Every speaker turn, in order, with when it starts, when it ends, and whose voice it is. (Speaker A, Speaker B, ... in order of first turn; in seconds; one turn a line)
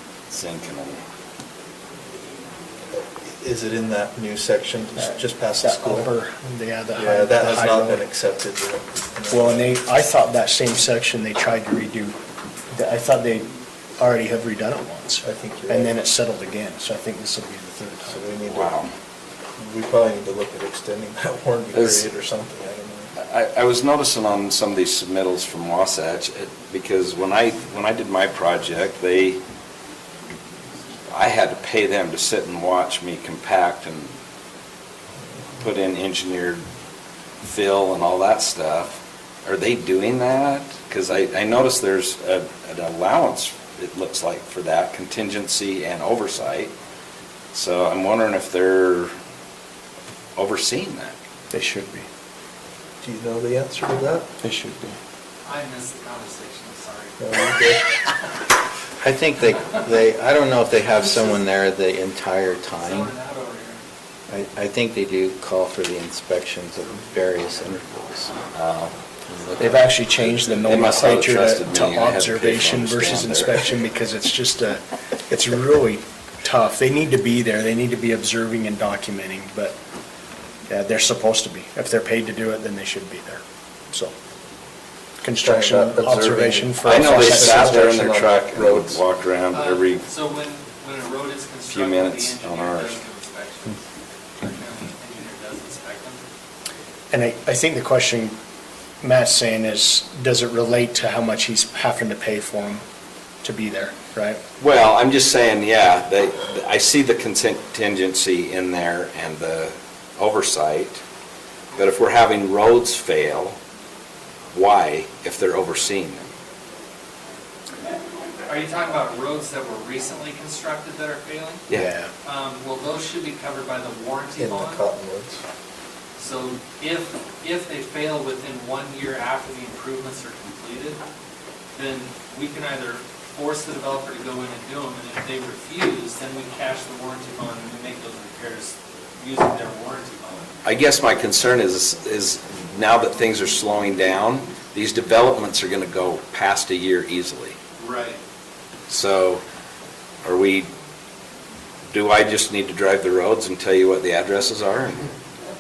Speaker A: 0.3-1.0
Speaker B: 2.9-6.1
Speaker C: 5.0-8.0
Speaker B: 7.0-9.8
Speaker C: 9.3-12.2
Speaker C: 12.7-18.4
Speaker B: 15.2-15.9
Speaker B: 18.1-18.7
Speaker A: 18.5-18.9
Speaker B: 19.6-23.1
Speaker A: 21.7-22.1
Speaker A: 23.2-29.4
Speaker A: 31.1-34.1
Speaker A: 35.6-36.6
Speaker A: 37.4-46.7
Speaker A: 47.5-49.1
Speaker A: 50.4-51.1
Speaker C: 51.5-52.1
Speaker B: 53.0-54.3
Speaker C: 54.4-55.0
Speaker D: 55.5-58.1
Speaker B: 57.2-57.9
Speaker E: 59.0-63.1
Speaker D: 62.8-63.8
Speaker E: 64.3-68.3
Speaker A: 68.5-68.9
Speaker E: 69.3-69.8
Speaker C: 69.6-79.7
Speaker A: 69.6-73.7
Speaker C: 80.7-84.1
Speaker C: 85.2-88.0
Speaker B: 85.4-89.0
Speaker A: 86.8-90.0
Speaker D: 89.5-93.8
Speaker A: 91.7-93.0
Speaker D: 94.4-96.2
Speaker C: 97.1-98.3
Speaker C: 99.0-102.8
Speaker C: 103.4-104.4
Speaker A: 104.6-111.0
Speaker A: 111.8-113.6
Speaker A: 114.5-116.3
Speaker D: 118.5-121.6
Speaker C: 121.7-122.1
Speaker D: 122.2-124.8
Speaker B: 124.4-125.4
Speaker D: 126.2-131.0
Speaker D: 131.7-140.5
Speaker A: 140.7-147.6
Speaker D: 147.8-148.2
Speaker A: 148.9-149.4
Speaker A: 150.2-150.7
Speaker A: 151.9-155.0